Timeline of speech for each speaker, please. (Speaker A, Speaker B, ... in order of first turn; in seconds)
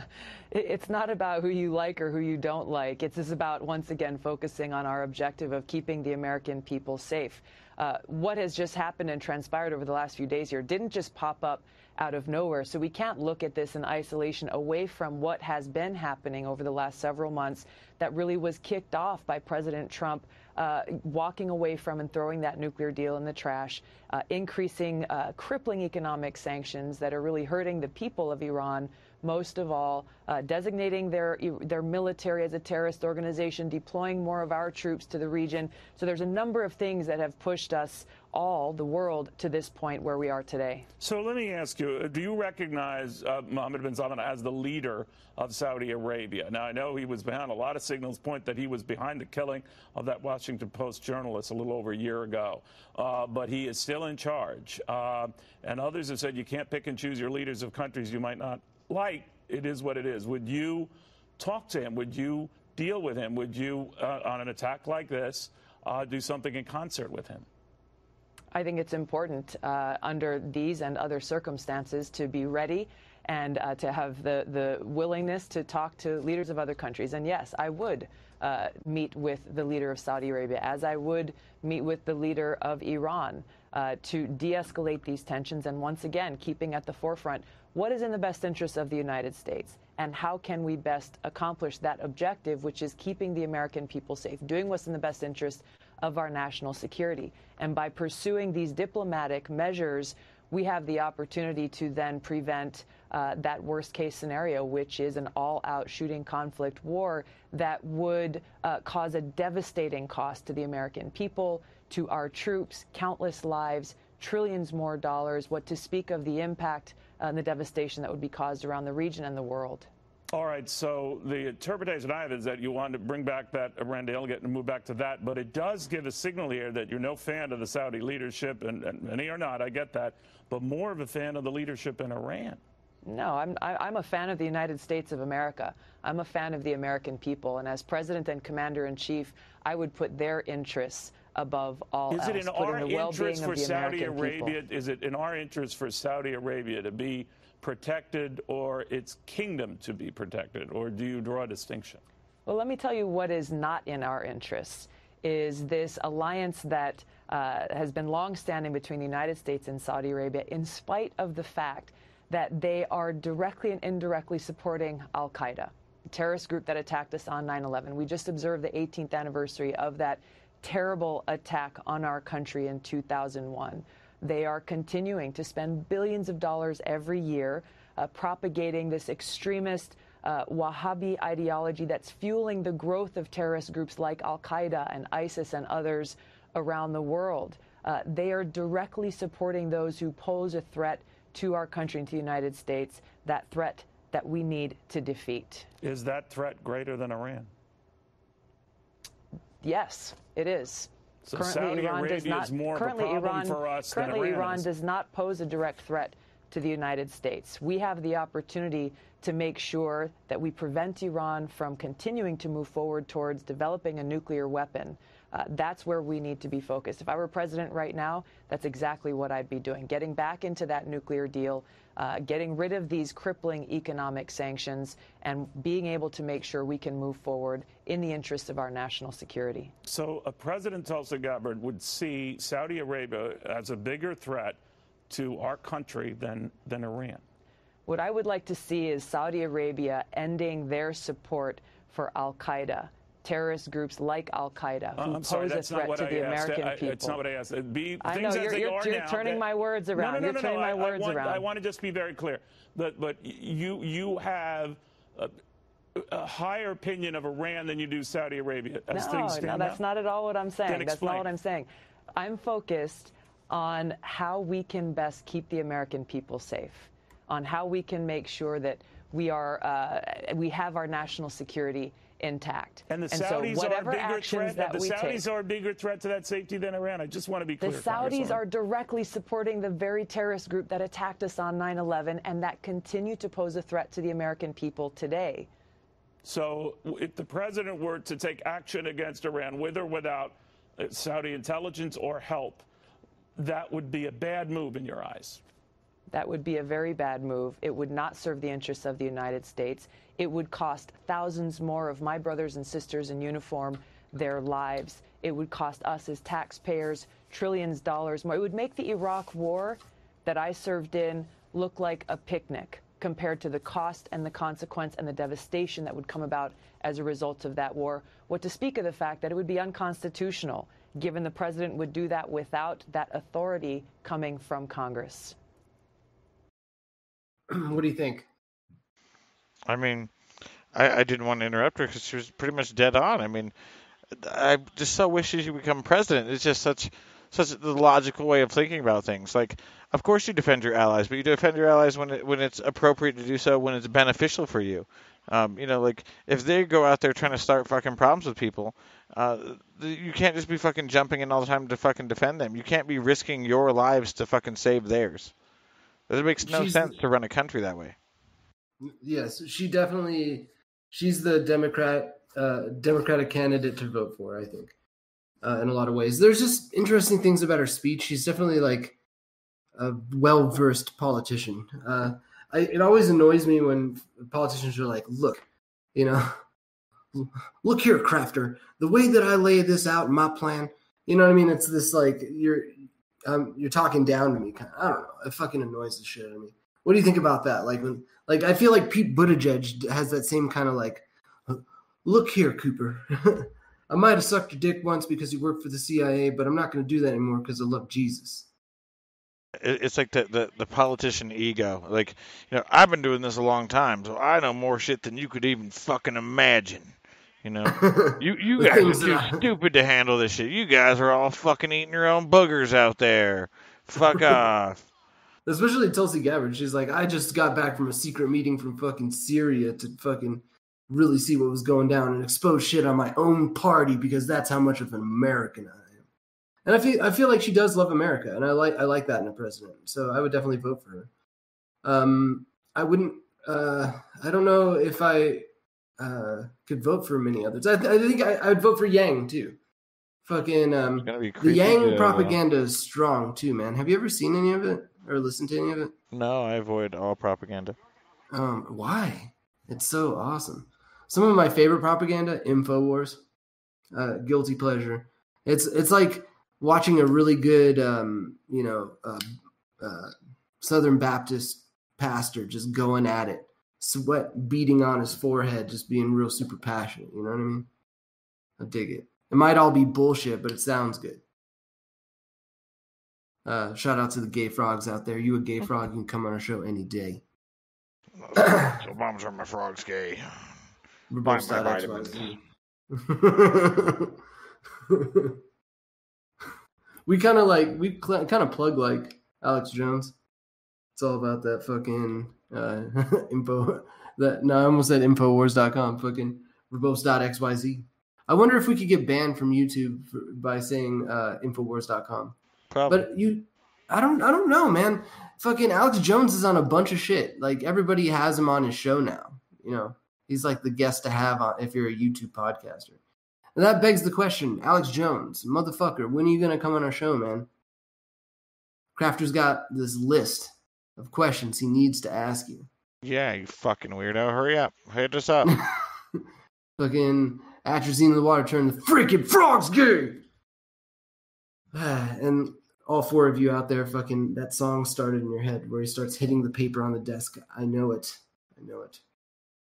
Speaker A: 0.5-40.9, 68.5-119.9, 133.1-144.6, 152.5-195.7, 199.6-229.7, 237.9-247.2, 248.0-251.5, 258.9-275.3, 277.6-285.5, 296.1-325.4
Speaker B: 41.0-67.5, 120.3-132.6, 142.1-152.0, 195.8-197.5, 201.3-204.7, 229.8-237.2, 245.0-255.3, 256.0-259.8, 260.7-261.3, 272.9-278.4, 286.2-292.7, 293.4-295.4
Speaker C: 327.5-328.3, 356.4-356.9, 358.8-364.8, 365.4-369.0, 369.8-376.4, 377.1-398.5, 407.7-409.4, 414.0-414.4, 415.5-426.1, 426.6-431.1, 431.8-435.5, 436.0-439.6, 440.2-445.9, 448.3-453.2, 453.9-459.2, 459.8-467.7, 468.6-471.2, 473.4-477.2, 478.4-478.8, 481.1-482.4, 482.9-484.1, 484.9-485.4, 487.1-490.2, 491.0-502.4, 502.9-513.0, 513.5-517.5, 519.0-522.7, 526.8-530.2, 531.7-539.0
Speaker D: 329.7-330.1, 330.7-333.5, 334.1-355.3, 356.1-358.0, 399.6-414.9, 441.0-442.4, 446.1-447.8, 478.2-480.4, 481.2-482.3, 502.7-503.1, 523.0-525.5